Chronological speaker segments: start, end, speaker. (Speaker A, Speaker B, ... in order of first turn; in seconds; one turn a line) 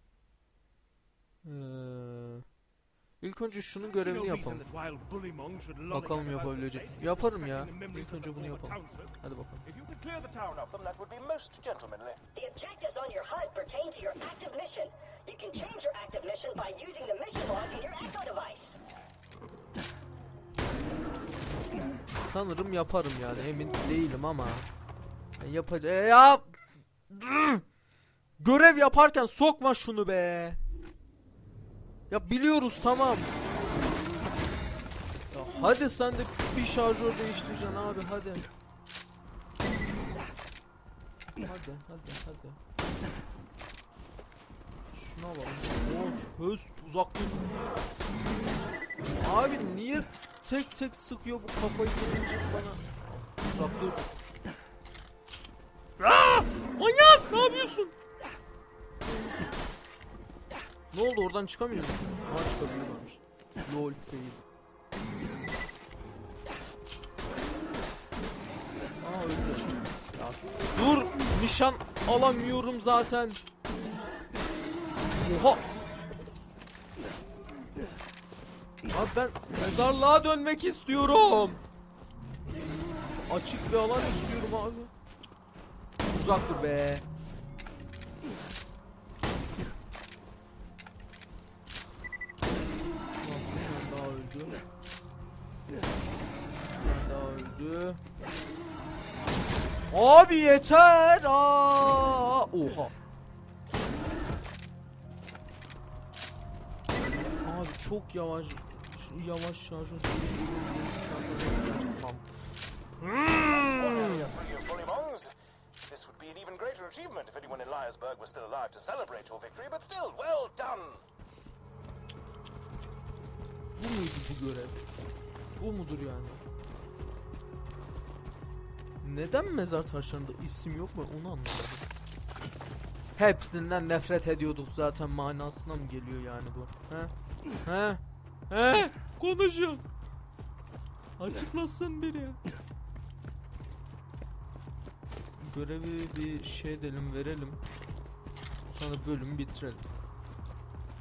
Speaker A: 1.4-2.5
Speaker A: 3.2-4.7
Speaker B: 3.8-10.6
Speaker A: 5.9-9.7
Speaker C: 10.5-12.2
Speaker D: 12.3-18.8
Speaker A: 22.1-24.7
Speaker A: 25.4-26.6
Speaker A: 27.1-27.6
Speaker A: 28.4-30.6
Speaker A: 32.1-33.3
Speaker A: 35.3-38.5
Speaker A: 41.4-42.6
Speaker A: 44.9-47.4
Speaker A: 49.2-54.1
Speaker A: 56.0-58.0
Speaker A: 60.9-64.4
Speaker A: 69.0-73.4
Speaker A: 75.1-75.7
Speaker A: 78.9-81.6
Speaker A: 82.6-84.9
Speaker A: 86.1-87.0
Speaker A: 93.2-94.6
Speaker A: 96.7-98.0
Speaker A: 99.9-102.9
Speaker A: 107.4-114.3
Speaker C: 113.5-115.3
Speaker C: 115.9-121.0
Speaker A: 123.8-124.8
Speaker A: 125.6-126.4
Speaker A: 129.0-131.8
Speaker A: 133.2-137.1
Speaker A: 137.7-139.8
Speaker A: 141.2-142.4
Speaker A: 145.4-147.6
Speaker A: 148.7-149.8